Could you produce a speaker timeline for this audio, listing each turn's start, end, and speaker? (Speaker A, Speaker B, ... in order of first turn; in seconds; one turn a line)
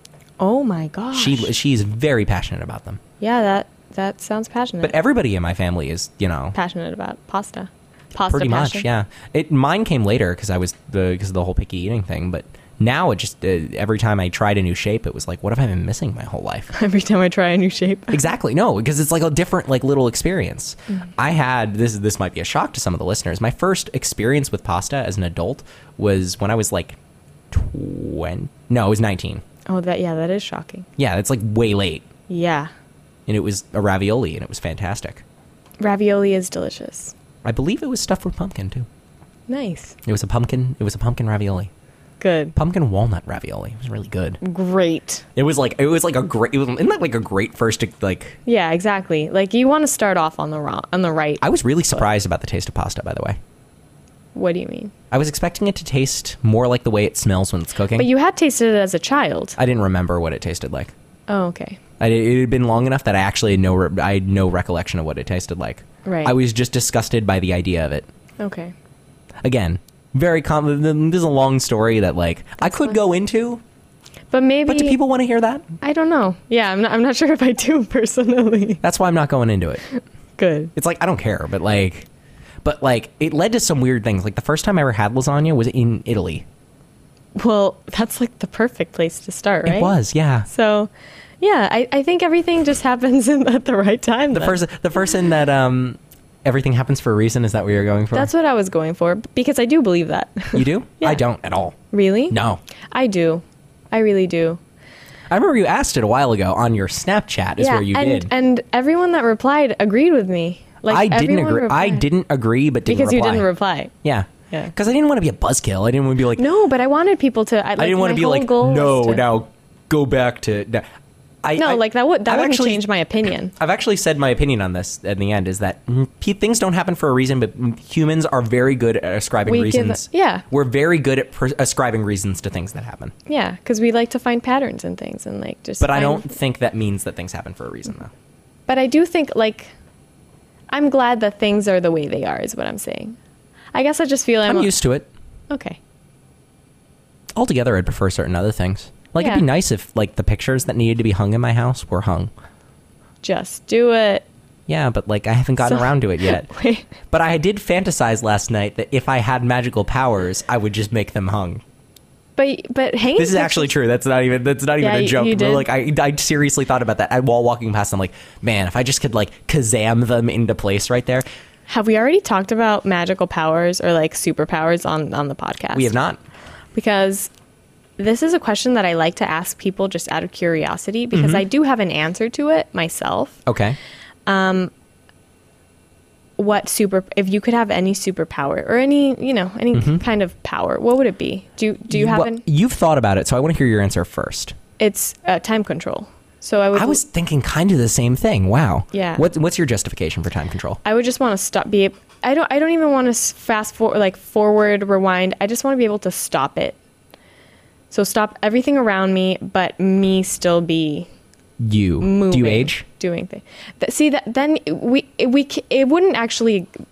Speaker A: 0.4-1.5
Speaker B: 1.1-3.0
Speaker A: 3.2-5.0
Speaker B: 4.8-6.5
Speaker A: 6.5-8.9
Speaker B: 8.3-16.7
Speaker A: 16.7-18.2
Speaker B: 18.1-27.0
Speaker B: 27.5-29.4
Speaker A: 29.7-30.9
Speaker B: 31.0-32.1
Speaker A: 32.3-32.7
Speaker B: 33.3-35.2
Speaker A: 35.8-37.1
Speaker B: 37.4-38.9
Speaker A: 39.5-40.0
Speaker B: 40.0-41.7
Speaker A: 42.2-42.5
Speaker B: 42.5-44.4
Speaker A: 44.4-45.3
Speaker B: 45.4-48.4
Speaker A: 48.5-51.4
Speaker B: 51.4-53.4
Speaker A: 54.4-54.9
Speaker B: 55.1-58.1
Speaker A: 58.0-59.6
Speaker B: 59.6-60.9
Speaker A: 61.3-61.8
Speaker B: 62.0-68.1
Speaker A: 66.0-66.3
Speaker A: 68.4-68.7
Speaker B: 69.4-73.6
Speaker A: 72.6-73.0
Speaker A: 74.3-75.0
Speaker B: 74.7-75.7
Speaker A: 75.8-78.8
Speaker B: 78.8-79.8
Speaker A: 80.4-80.7
Speaker B: 80.8-82.1
Speaker B: 82.6-86.5
Speaker A: 87.4-90.0
Speaker B: 89.7-90.5
Speaker A: 90.5-94.6
Speaker B: 94.3-98.3
Speaker A: 98.1-101.2
Speaker B: 100.5-101.8
Speaker A: 101.9-102.4
Speaker B: 102.3-102.6
Speaker A: 102.9-104.6
Speaker B: 105.3-108.3
Speaker A: 107.6-112.1
Speaker B: 110.9-113.5
Speaker A: 112.9-113.9
Speaker B: 114.0-116.5
Speaker A: 116.4-119.3
Speaker B: 117.8-120.8
Speaker B: 121.4-122.8
Speaker A: 121.6-123.5
Speaker B: 123.6-133.1
Speaker A: 129.5-130.4
Speaker A: 133.3-136.3
Speaker B: 135.8-138.1
Speaker A: 138.7-139.7
Speaker A: 140.7-143.2
Speaker A: 143.7-144.7
Speaker B: 144.5-145.1
Speaker A: 145.5-145.8
Speaker B: 147.3-152.3
Speaker A: 149.2-149.4
Speaker A: 153.2-154.2
Speaker B: 154.7-156.5
Speaker A: 155.6-156.9
Speaker B: 157.1-161.6
Speaker A: 162.4-163.7
Speaker B: 163.2-171.3
Speaker A: 164.8-165.7
Speaker A: 171.7-175.9
Speaker B: 175.7-176.2
Speaker A: 176.8-177.3
Speaker A: 178.0-183.4
Speaker B: 181.1-181.4
Speaker B: 183.5-183.8
Speaker A: 184.3-184.7
Speaker A: 186.4-192.4
Speaker B: 189.7-190.0
Speaker B: 191.9-194.6
Speaker A: 194.8-197.0
Speaker B: 196.8-200.8
Speaker A: 198.9-199.2
Speaker A: 200.8-206.8
Speaker A: 207.9-211.1
Speaker B: 211.6-212.8
Speaker A: 212.0-216.7